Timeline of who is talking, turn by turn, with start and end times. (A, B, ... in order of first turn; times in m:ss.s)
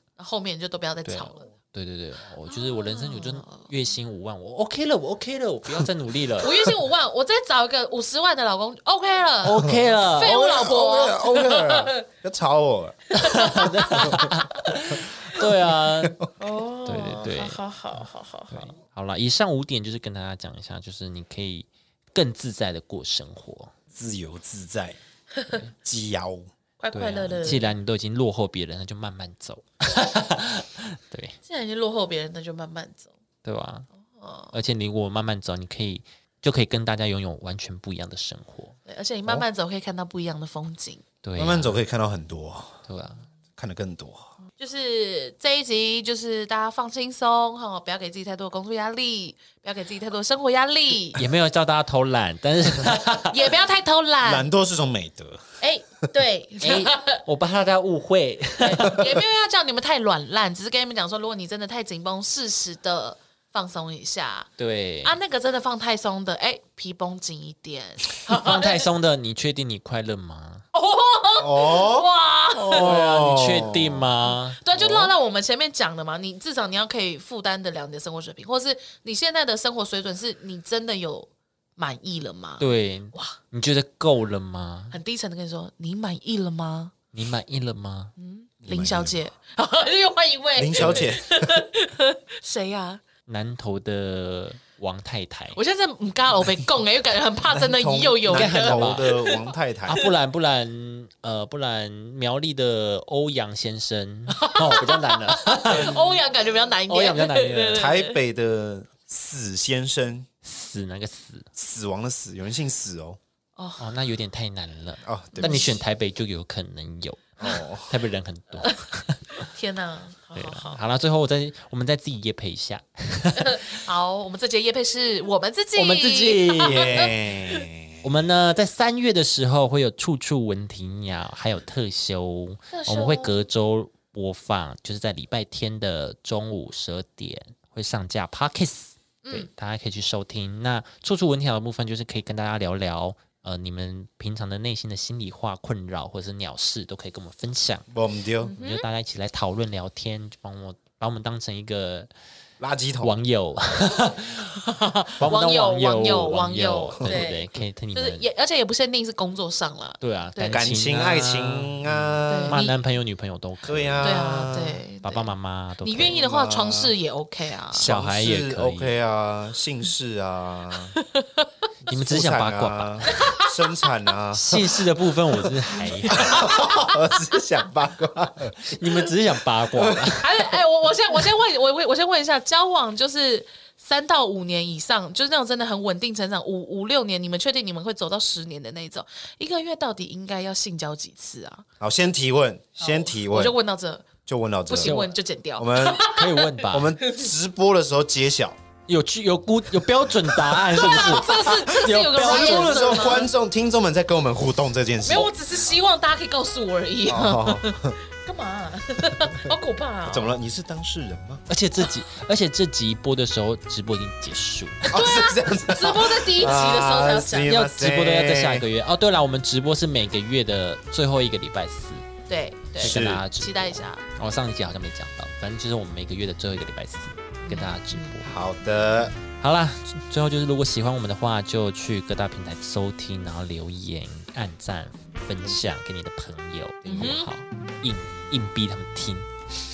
0:00.2-0:01.5 A
0:01.0-0:06.6 B
0:02.5-0:03.7 A
0:06.4-0:12.0 A
0:09.4-0:10.4 B
0:09.6-0:13.2 C
0:13.1-0:16.2 B
0:13.1-0:14.3 A
0:13.9-0:14.3 C
0:14.9-0:15.5 C
0:16.0-0:16.3 C
0:16.4-0:18.7 A
0:16.8-0:23.7 B
0:23.9-0:25.0 C
0:25.3-0:25.6 A
0:25.8-0:26.5 C
0:26.8-0:27.7 A
0:26.9-0:31.4 B
0:31.4-0:33.1 A
0:33.4-0:33.9 B
0:34.2-0:34.5 A
0:34.5-0:38.7 B
0:38.8-0:41.0 A
0:41.2-0:41.8 B
0:41.4-0:42.8 C
0:42.8-0:43.2 B
0:43.6-0:44.3 C
0:44.6-0:51.2 A
0:51.1-0:53.5 B
0:53.1-0:54.5 A
0:54.2-0:55.6 C
0:55.6-0:57.2 A
0:56.6-0:59.2 B
0:58.6-1:04.5 A
1:04.6-1:05.2 B
1:05.0-1:08.9 A
1:08.3-1:10.6 B
1:10.7-1:12.9 A
1:11.4-1:14.1 C
1:12.7-1:15.1 B
1:14.3-1:23.4 A
1:22.6-1:25.0 B
1:24.9-1:26.9 A
1:27.1-1:28.1 B
1:28.2-1:33.0 A
1:28.6-1:29.2 C
1:30.6-1:31.6 C
1:30.8-1:31.1 B
1:33.3-1:35.6 B
1:35.6-1:40.0 A
1:37.5-1:40.0 C
1:38.3-1:39.2 B
1:39.8-1:46.0 B
1:44.3-1:48.2 A
1:45.7-1:46.2 C
1:46.9-1:47.9 B
1:47.7-1:50.3 C
1:50.4-1:51.5 B
1:51.6-1:53.2 C
1:53.6-1:53.9 A
1:53.8-1:59.5 B
1:55.0-1:55.8 C
1:55.3-1:55.8 A
1:57.4-1:58.0 C
1:58.6-2:00.8 A
2:00.3-2:03.8 B
2:03.4-2:07.6 A
2:05.7-2:07.0 B
2:06.6-2:08.0 C
2:08.0-2:27.9 B
2:12.7-2:13.4 A
2:19.2-2:19.5 A
2:27.9-2:28.5 C
2:28.4-2:28.9 A
2:28.6-2:32.1 B
2:32.6-2:33.2 C
2:33.0-2:34.6 B
2:34.6-2:40.6 A
2:35.2-2:38.2 B
2:40.0-2:44.4 B
2:40.5-2:42.6 C
2:42.3-2:42.8 A
2:43.6-2:44.8 C
2:44.0-2:47.9 A
2:45.0-2:46.2 B
2:46.0-2:46.9 C
2:47.7-2:49.0 B
2:47.7-2:51.0 C
2:51.0-2:51.5 A
2:51.9-2:53.1 B
2:51.9-2:54.8 C
2:53.1-2:53.9 A
2:54.3-2:56.5 B
2:55.9-2:57.4 A
2:56.1-2:58.8 C
2:58.6-3:00.4 B
2:59.7-3:00.1 C
3:00.2-3:11.6 A
3:11.8-3:13.6 C
3:12.8-3:14.1 A
3:14.2-3:16.1 C
3:14.7-3:17.3 A
3:14.8-3:15.1 B
3:16.0-3:16.9 B
3:16.7-3:18.6 C
3:18.9-3:23.2 B
3:20.1-3:25.3 C
3:20.7-3:23.3 A
3:25.0-3:30.4 A
3:27.1-3:28.0 C
3:30.0-3:31.4 C
3:31.5-3:34.9 B
3:34.9-3:38.6 C
3:34.9-3:37.5 A
3:37.4-3:42.0 B
3:42.3-3:44.0 A
3:42.8-3:48.3 B
3:42.8-3:43.2 C
3:47.4-3:48.1 A
3:48.2-3:49.2 C
3:49.4-3:59.3 B
3:56.8-3:57.3 A